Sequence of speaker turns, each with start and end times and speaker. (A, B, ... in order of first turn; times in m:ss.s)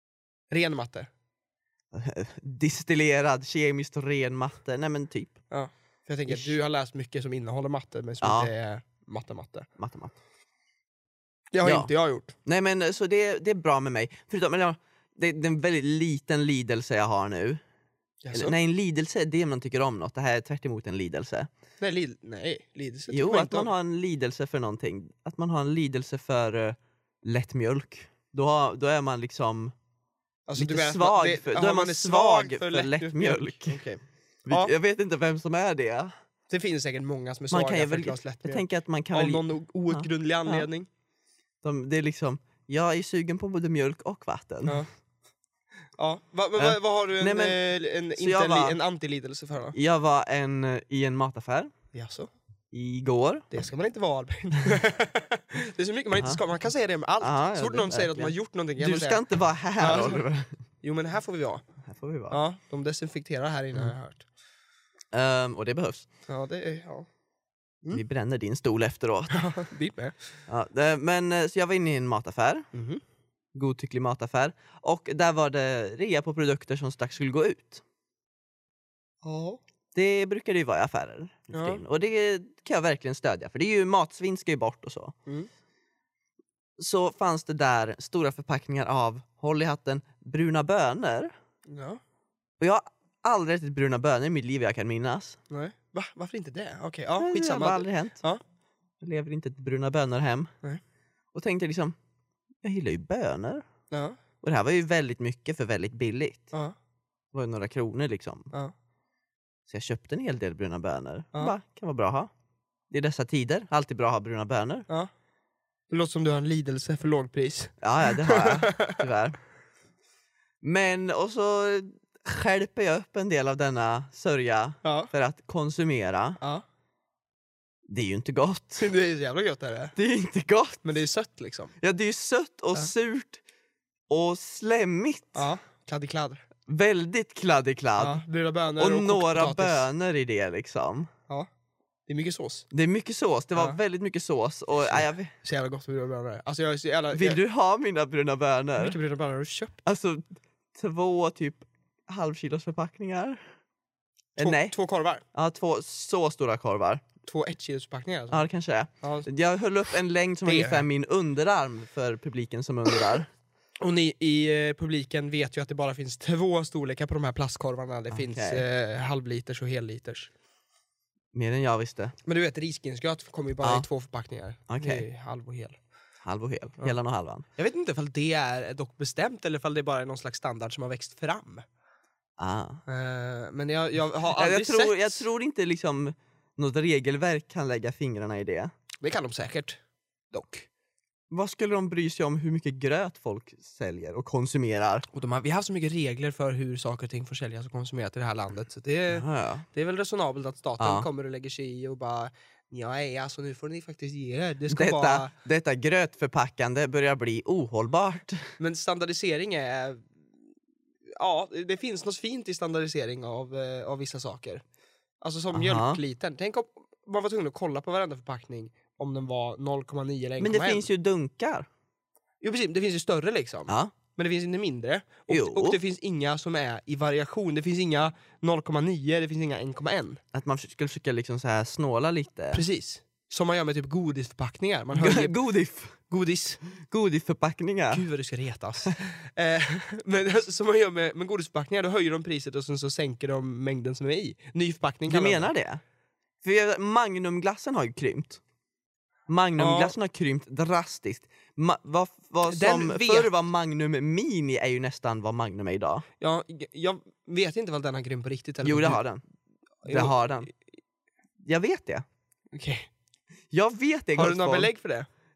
0:00.5-0:01.1 A
0:01.9-0:05.4 B
0:05.5-0:09.7 A
0:06.3-0:06.6 B
0:08.2-0:08.5 B
0:09.8-0:10.2 B
0:11.5-0:12.3 A
0:11.6-0:11.9 B
0:12.4-0:17.6 B
0:18.2-0:18.6 A
0:18.3-0:21.5 B
0:21.8-0:23.7 A
0:23.1-0:29.7 B
0:30.5-0:34.7 A
0:30.6-0:33.8 B
0:34.5-0:36.1 B
0:36.5-0:40.9 A
0:37.5-0:40.7 B
0:41.6-0:44.8 B
0:46.0-0:49.8 A
0:46.6-0:47.6 B
0:48.2-0:48.8 B
0:49.7-0:51.7 B
0:51.9-0:52.3 A
0:52.7-0:53.5 B
0:53.5-0:59.2 A
0:57.2-1:00.5 B
0:59.8-1:00.2 A
1:00.8-1:01.6 A
1:01.8-1:02.4 B
1:02.3-1:04.3 A
1:05.1-1:06.1 B
1:06.3-1:07.1 A
1:07.9-1:09.4 B
1:09.3-1:10.2 A
1:10.5-1:12.7 B
1:12.7-1:13.0 A
1:13.5-1:17.8 B
1:19.2-1:19.6 A
1:20.0-1:25.1 B
1:21.5-1:21.8 A
1:26.8-1:31.3 B
1:31.7-1:32.0 A
1:32.6-1:35.4 B
1:35.5-1:38.4 A
1:37.2-1:38.2 B
1:39.0-1:40.5 B
1:41.3-1:42.0 B
1:42.6-1:43.6 B
1:43.9-1:44.2 A
1:44.4-1:46.5 B
1:47.3-1:48.5 B
1:49.7-1:52.3 B
1:52.9-1:54.8 B
1:55.9-1:59.0 A
1:57.8-1:59.4 B
2:00.6-2:06.4 B
2:04.8-2:05.1 A
2:07.9-2:08.9 B
2:08.8-2:10.0 A
2:10.0-2:10.9 B
2:10.8-2:11.7 A
2:11.8-2:13.4 B
2:14.1-2:15.4 B
2:15.3-2:16.4 A
2:16.7-2:18.2 B
2:18.0-2:19.8 A
2:18.8-2:21.1 B
2:22.1-2:22.7 A
2:22.7-2:25.3 B
2:24.9-2:27.4 A
2:27.1-2:29.0 B
2:28.8-2:29.7 A
2:29.8-2:33.4 B
2:34.4-2:34.7 B
2:34.4-2:35.2 A
2:35.3-2:37.0 B
2:37.2-2:38.4 A
2:38.3-2:43.3 B
2:39.0-2:39.3 A
2:40.4-2:40.8 A
2:43.8-2:50.3 A
2:48.1-2:48.6 B
2:51.3-2:52.2 B
2:52.2-2:55.8 A
2:54.7-2:55.0 B
2:56.2-2:57.5 B
2:57.6-3:01.6 A
3:02.4-3:02.8 B
3:02.8-3:05.3 A
3:04.4-3:08.7 B
3:09.0-3:09.8 A
3:10.3-3:10.7 A
3:11.3-3:15.0 B
3:15.1-3:25.3 A
3:19.1-3:19.7 B
3:20.8-3:21.1 B
3:24.7-3:28.5 B
3:28.6-3:30.0 A
3:31.2-3:34.6 A
3:35.2-3:40.8 A
3:35.5-3:36.0 B
3:40.4-3:41.7 B
3:42.4-3:50.2 A
3:43.7-3:43.9 B
3:45.3-3:45.8 B
3:50.3-3:52.6 B
3:52.5-3:55.4 A
3:54.9-3:56.0 B
3:56.1-3:56.6 A
3:56.7-3:58.0 B
3:57.9-4:05.5 A
4:05.1-4:05.8 B
4:06.4-4:08.4 B
4:09.3-4:16.0 B
4:09.6-4:10.0 A
4:12.5-4:13.3 A
4:16.2-4:19.0 A
4:18.6-4:19.2 B
4:19.8-4:20.4 A
4:19.9-4:20.5 B
4:21.4-4:22.0 B
4:22.5-4:22.9 A
4:23.5-4:24.7 B
4:24.2-4:25.1 A